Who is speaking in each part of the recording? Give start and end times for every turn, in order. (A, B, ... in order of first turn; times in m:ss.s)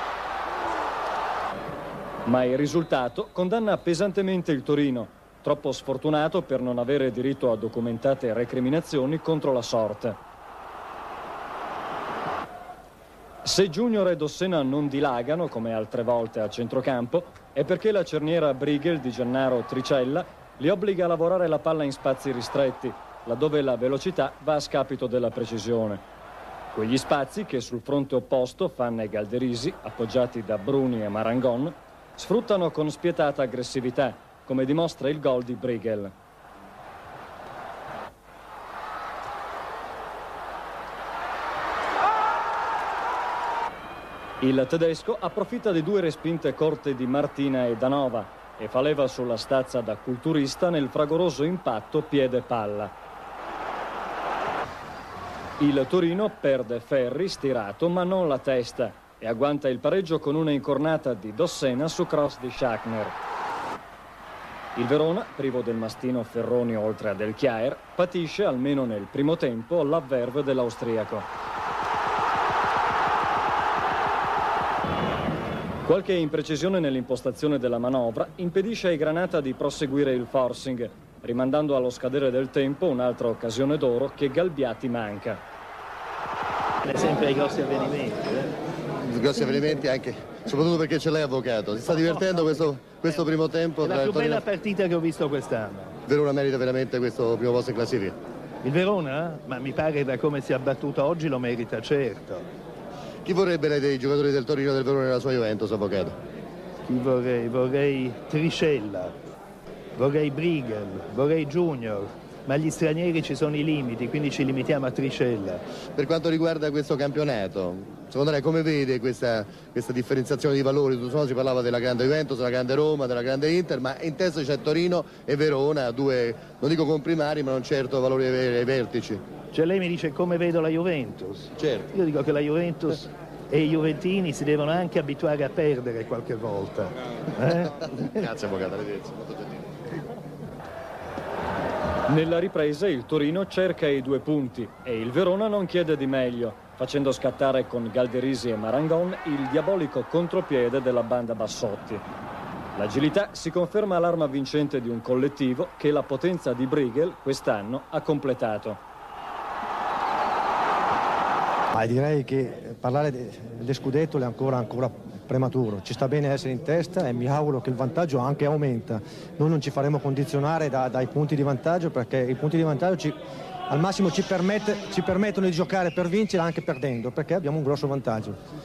0:02.2-0:10.2 A
0:13.4-0:26.0 A
0:26.7-0:36.1 A
0:44.4-0:52.9 A
0:55.6-1:03.2 A
1:04.8-1:11.3 A
1:15.8-1:25.4 A
1:26.8-1:28.5 B
1:29.0-1:34.4 C
1:33.8-1:36.0 B
1:36.1-1:38.2 C
1:38.6-1:42.5 B
1:43.2-1:46.2 C
1:46.9-1:49.1 B
1:50.0-1:55.6 B
1:56.0-2:09.2 C
2:09.5-2:17.9 B
2:17.8-2:19.7 C
2:22.1-2:32.0 A
2:32.8-2:38.8 A
2:41.7-2:53.2 D
2:53.7-2:58.4 D